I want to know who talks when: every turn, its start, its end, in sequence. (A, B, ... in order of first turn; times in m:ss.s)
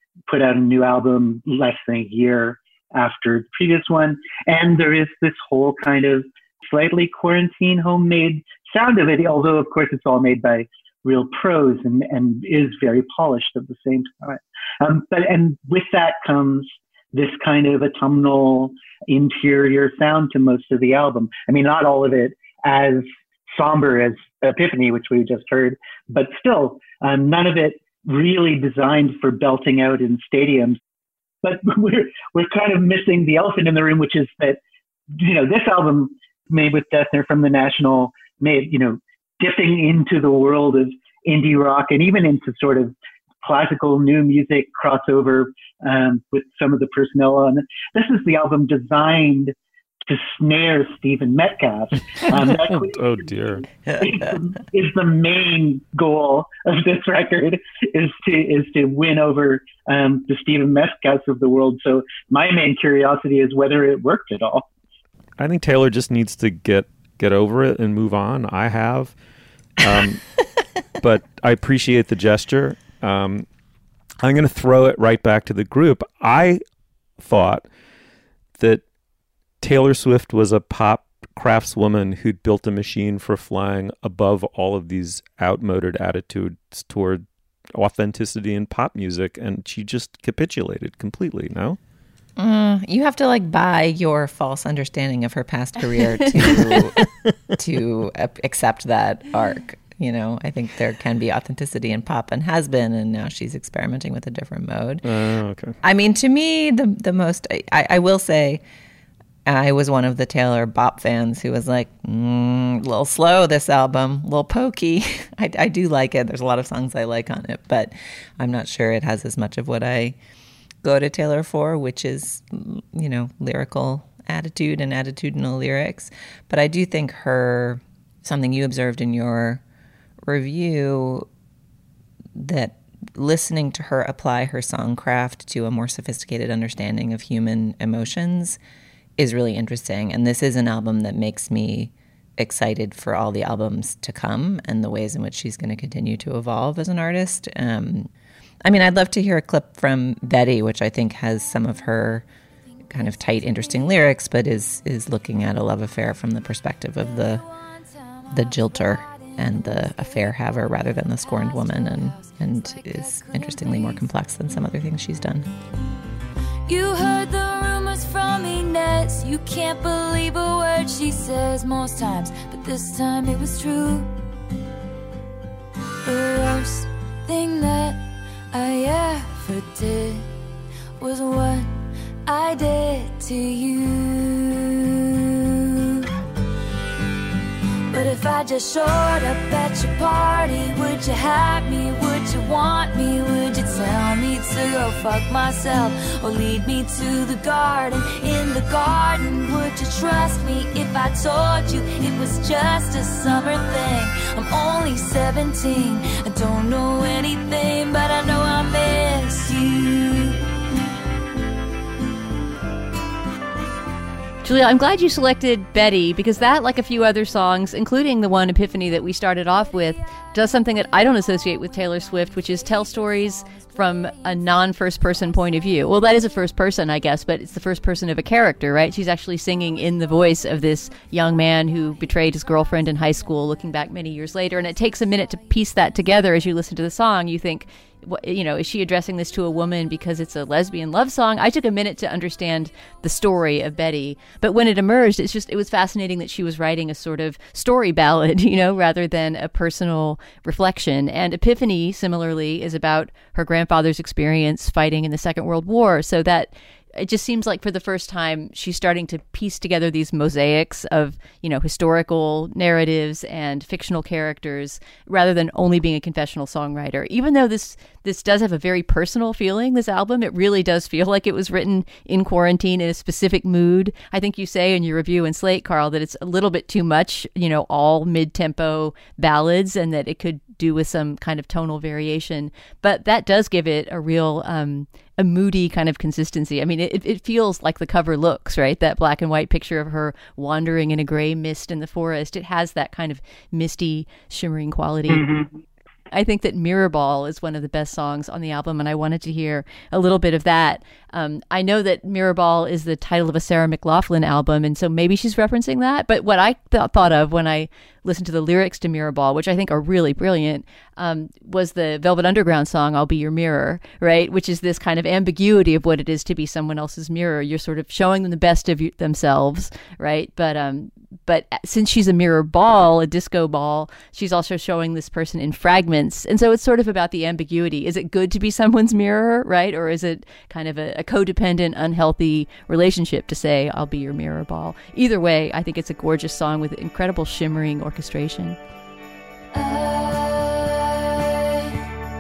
0:00.3-0:30.8 A
0:31.4-0:34.6 A
0:35.2-0:49.5 A
0:50.1-1:04.7 A
0:52.3-0:53.7 B
1:05.4-1:09.2 B
1:09.8-1:10.3 B
1:11.0-1:13.5 B
1:14.2-1:16.6 B
1:17.2-1:17.7 B
1:19.6-1:31.8 B
1:32.4-1:45.1 C
1:45.0-1:45.8 B
1:45.8-1:48.6 C
1:49.5-2:00.2 C
2:00.8-2:09.6 C
2:10.2-2:11.3 C
2:12.4-2:18.6 C
2:19.2-2:28.1 C
2:28.6-2:32.3 C
2:32.9-2:37.5 C
2:38.2-2:40.4 D
2:38.3-2:45.5 C
2:41.0-2:44.1 D
2:46.7-2:54.1 D
2:56.0-3:00.3 D
3:01.0-3:06.1 D
3:07.9-3:30.5 D
3:34.4-4:55.2 E
3:42.9-3:44.8 D
4:55.1-4:55.6 A
4:56.1-5:38.6 E
5:39.5-5:41.8 D